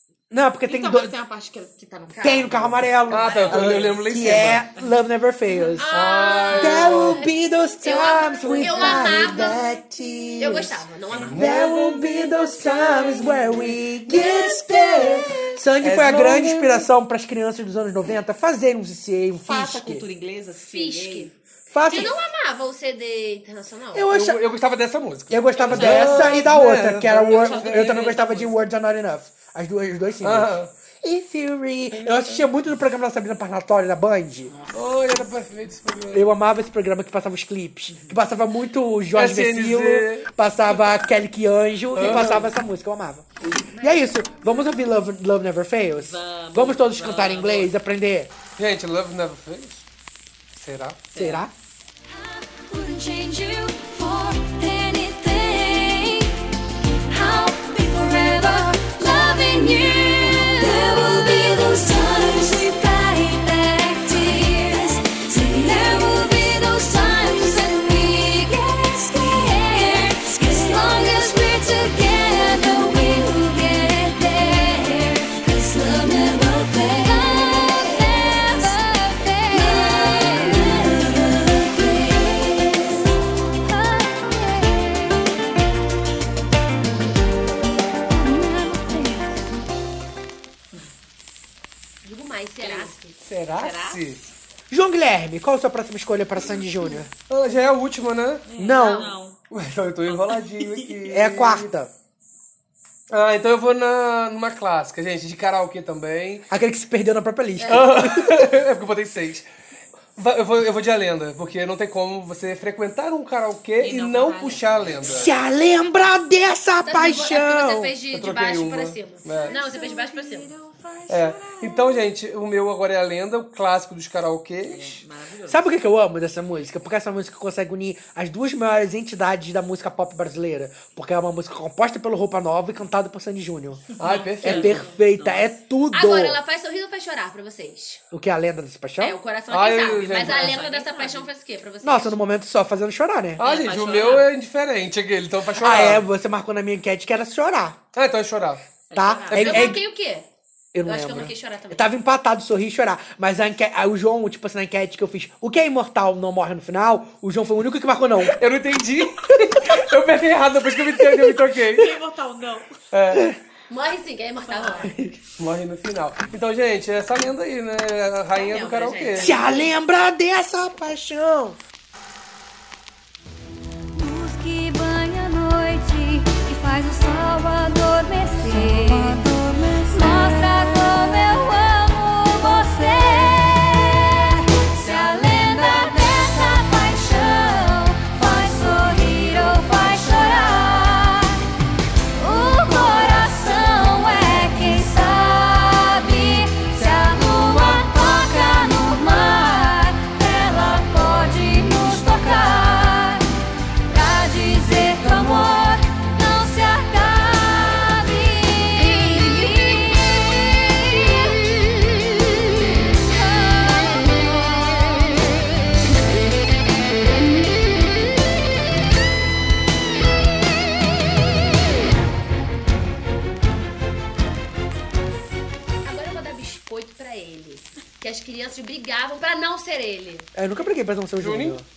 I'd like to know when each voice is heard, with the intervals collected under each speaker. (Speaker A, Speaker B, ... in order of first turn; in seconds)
Speaker A: 0.3-1.1, 2.2-6.0, 6.5-20.0, 21.7-22.1, 23.9-24.4, 25.3-34.5, 36.1-43.3, 43.8-48.3, 51.1-51.5, 94.7-97.1, 98.6-99.2, 101.1-101.9, 106.5-108.5, 115.1-118.0, 125.5-136.4, 138.1-139.2, 141.8-143.4, 145.5-147.8, 148.9-149.8, 150.7-158.4, 163.1-163.4, 164.8-165.2, 169.2-171.6, 230.3-231.7
Speaker B: 0.7-4.9, 5.5-5.8, 8.4-9.1, 19.4-21.4, 25.6-26.6, 27.3-28.6, 34.5-35.3, 42.0-42.4, 43.7-44.0, 46.0-47.7, 51.1-51.5, 92.6-93.0, 93.5-94.0, 98.5-99.4, 100.1-101.2, 113.8-115.3, 119.3-122.0, 124.6-125.7, 134.0-135.5, 139.9-141.3, 143.4-144.3, 148.9-149.7, 161.7-162.8, 164.5-165.0, 168.3-169.7
Speaker C: 3.1-4.6, 5.9-7.2, 11.1-12.1, 15.8-16.9, 24.0-28.2, 30.2-30.7, 32.0-32.4, 34.7-36.3, 39.1-40.3, 41.9-42.5, 48.6-49.8, 50.5-51.1, 93.2-94.3, 97.3-98.5, 99.5-101.7, 103.1-106.5, 107.7-109.5, 110.2-115.3, 118.1-119.6, 121.1-125.0, 134.0-134.8, 139.5-140.6, 143.4-146.1, 147.9-148.6, 158.3-161.9, 162.9-163.3, 165.4-169.4, 231.2-231.6
Speaker D: 5.8-9.6, 10.4-11.9, 14.1-15.6, 20.7-21.3, 21.9-24.1, 92.0-93.2, 98.7-99.1, 107.6-108.1, 116.8-120.5, 135.9-138.0, 139.0-142.2, 149.3-150.3, 150.8-151.9, 163.7-164.9, 225.8-230.3
Speaker E: 52.1-56.4, 57.1-83.0, 83.6-85.2, 88.2-89.5, 119.8-120.9, 173.9-191.4, 192.2-203.3, 203.9-211.9, 212.9-215.1